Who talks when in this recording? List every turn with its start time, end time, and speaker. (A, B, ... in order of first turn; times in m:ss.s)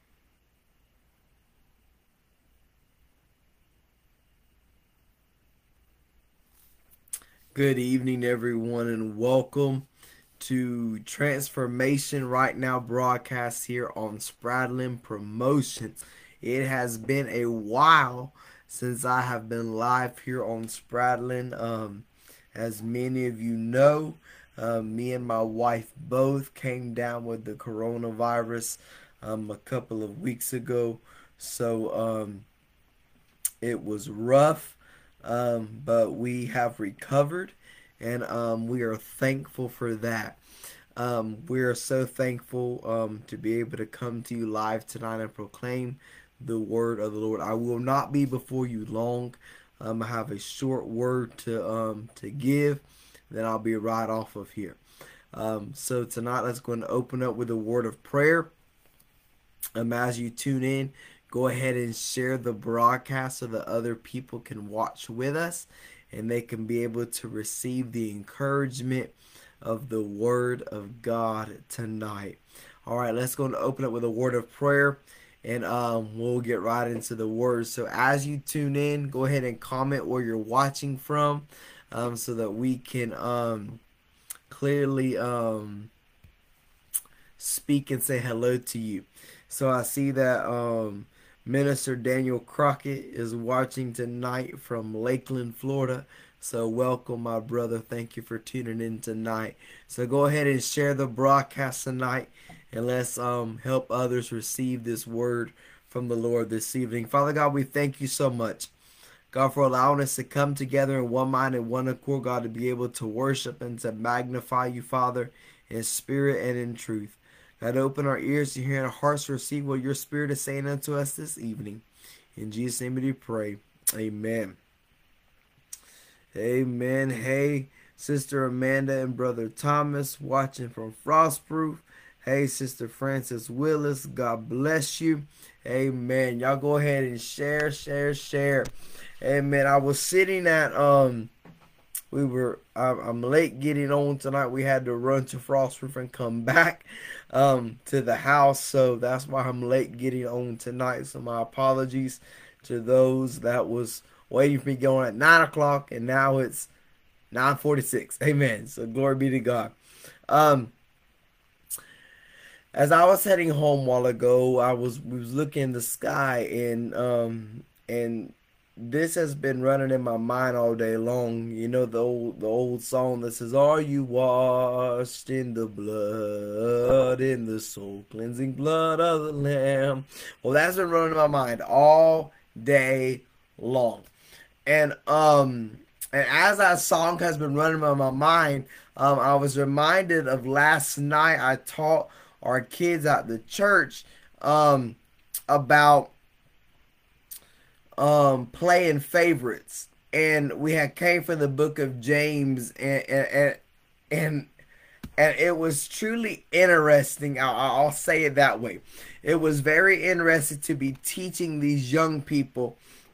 0:07.5-0:09.9 A
0:10.4-0:32.4 A
0:33.6-0:40.4 A
0:41.0-0:54.8 A
0:55.3-0:58.5 A
0:59.8-1:23.8 A
1:24.5-1:25.9 A
1:27.4-1:48.7 A
1:49.3-2:01.8 A
2:02.4-2:04.6 A
2:06.3-2:18.7 A
2:19.2-2:21.3 A
2:22.1-2:36.7 A
2:37.3-2:39.7 A
2:40.3-2:40.7 A
2:42.8-3:04.1 A
3:04.7-3:15.0 A
3:15.5-3:16.1 A
3:18.0-3:23.6 A
3:24.1-3:24.5 A
3:25.2-3:32.8 A